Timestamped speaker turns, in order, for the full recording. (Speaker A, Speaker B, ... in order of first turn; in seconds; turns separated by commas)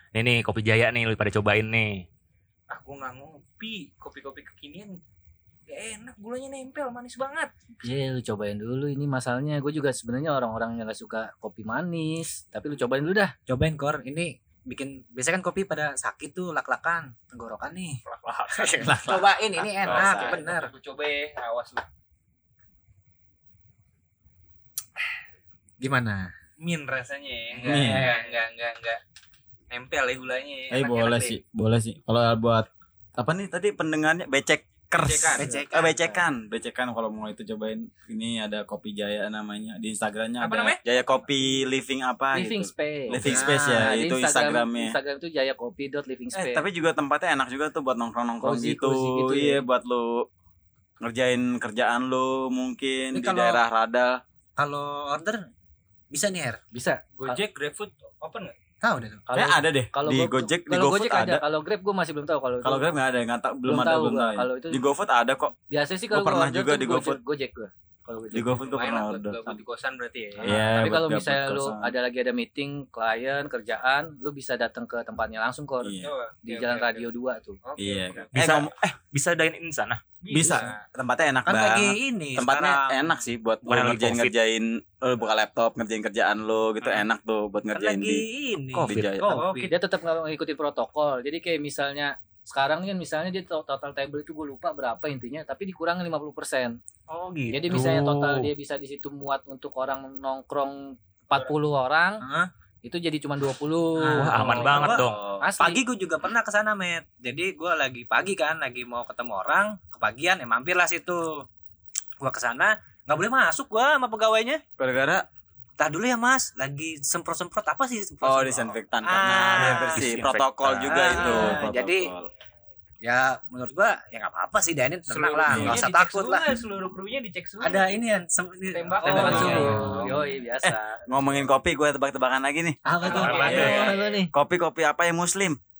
Speaker A: 0.1-2.0, Speaker B: 2.7-5.0, Speaker B: 5.7-7.5, Speaker C: 7.8-13.3, Speaker D: 13.5-20.7, Speaker A: 18.1-18.9, Speaker E: 18.8-20.4, Speaker B: 19.9-21.8, Speaker D: 25.8-26.3, Speaker B: 26.6-29.0, Speaker E: 27.6-28.1, Speaker B: 29.7-31.4, Speaker E: 30.7-44.9, Speaker B: 35.0-35.5, Speaker D: 35.4-36.1, Speaker B: 40.4-40.8, Speaker C: 42.3-46.6, Speaker D: 43.2-43.9, Speaker E: 46.3-50.3, Speaker C: 48.4-49.6, Speaker E: 51.0-54.2, Speaker D: 53.1-53.6, Speaker D: 54.6-55.5, Speaker D: 56.1-56.6, Speaker C: 56.7-57.4, Speaker B: 57.2-58.5, Speaker D: 58.8-59.2, Speaker C: 59.3-62.9, Speaker E: 59.3-61.4, Speaker E: 62.6-65.5, Speaker C: 63.6-64.8, Speaker C: 65.7-68.6, Speaker E: 66.1-67.2, Speaker E: 68.3-69.6, Speaker B: 68.7-70.8, Speaker E: 70.4-71.9, Speaker C: 70.4-77.6, Speaker E: 75.8-76.1, Speaker B: 75.9-77.0, Speaker B: 77.6-78.3, Speaker E: 77.8-78.7, Speaker A: 78.3-80.0, Speaker B: 80.2-80.8, Speaker E: 80.3-88.2, Speaker D: 81.5-83.0, Speaker A: 83.6-84.3, Speaker D: 87.7-88.9, Speaker A: 88.7-89.5, Speaker E: 88.8-89.4, Speaker C: 89.2-96.8, Speaker B: 89.2-89.7, Speaker A: 97.1-98.5, Speaker C: 97.5-102.2, Speaker D: 102.2-102.5, Speaker C: 102.8-105.8, Speaker D: 104.0-105.0, Speaker A: 104.1-105.2, Speaker E: 104.8-105.4, Speaker D: 105.6-111.5, Speaker D: 112.2-114.6, Speaker E: 114.8-115.2, Speaker D: 115.8-120.0, Speaker E: 118.2-122.3, Speaker A: 119.3-121.0, Speaker D: 120.8-122.1, Speaker C: 121.2-121.6, Speaker D: 123.0-126.6, Speaker B: 125.1-127.9, Speaker E: 125.5-125.8, Speaker D: 127.6-130.1, Speaker B: 128.7-130.2, Speaker C: 129.0-131.0, Speaker E: 131.1-132.8, Speaker D: 132.8-134.1, Speaker A: 133.0-133.9, Speaker C: 133.2-134.3, Speaker B: 133.3-133.6, Speaker E: 133.4-135.6